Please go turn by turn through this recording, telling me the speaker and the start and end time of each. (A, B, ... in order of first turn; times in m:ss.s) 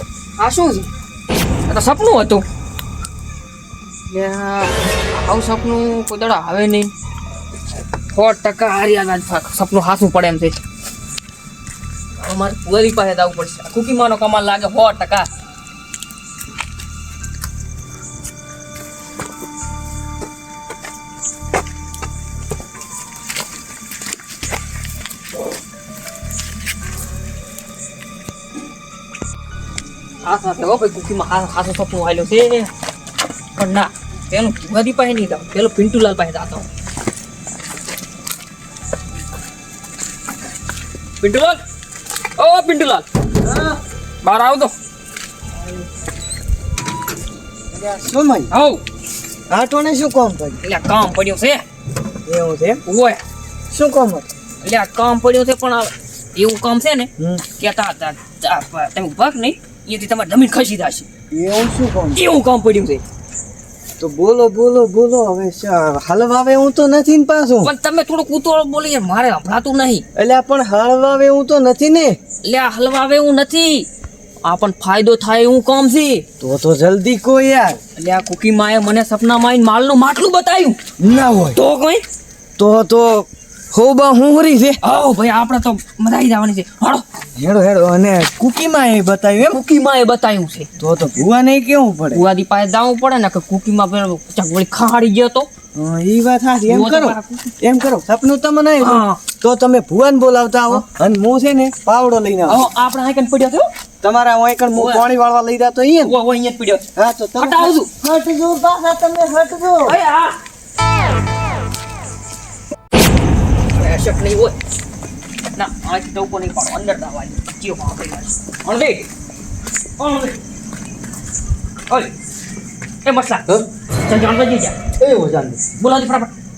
0:00.4-0:00.9 A
0:01.7-0:02.4 A
0:04.1-0:06.9 A
0:08.1-0:10.6 A
0:12.2-0:15.3 A
0:30.2-0:32.7 A
0:33.6-0:36.7 A
0:41.2-0:41.6 A
0:42.4-0:43.0 A
0:43.4-0:43.7 B
0:44.2-0:44.7 A
0:47.7-0:48.5 B
0:48.5-0:48.8 A
0:49.5-0:50.6 B
0:50.6-0:51.6 A
0:52.2-0:52.8 B
0:52.8-0:53.2 A
0:53.7-0:54.2 B
0:54.6-1:01.1 A
1:01.3-1:02.2 B
1:02.1-1:03.0 A
1:04.0-1:07.7 B
1:07.6-1:10.0 A
1:10.2-1:12.2 B
1:12.4-1:13.9 A
1:14.4-1:16.2 A
1:16.4-1:17.8 B
1:18.0-1:20.8 A
1:21.0-1:21.6 B
1:21.5-1:22.0 A
1:22.6-1:24.8 B
1:24.8-1:27.0 A
1:27.4-1:29.6 B
1:29.4-1:30.7 A
1:30.8-1:32.2 B
1:32.1-1:35.5 A
1:35.7-1:42.6 B
1:36.7-1:37.5 A
1:38.8-1:39.2 A
1:42.5-1:43.7 A
1:44.0-1:46.1 B
1:44.7-1:45.0 A
1:46.0-1:46.8 A
1:47.0-1:50.0 B
1:47.4-1:47.9 A
1:49.8-1:50.4 A
1:53.7-1:54.6 A
1:55.6-1:59.0 A
2:00.0-2:00.3 A
2:03.0-2:04.7 A
2:05.8-2:06.3 A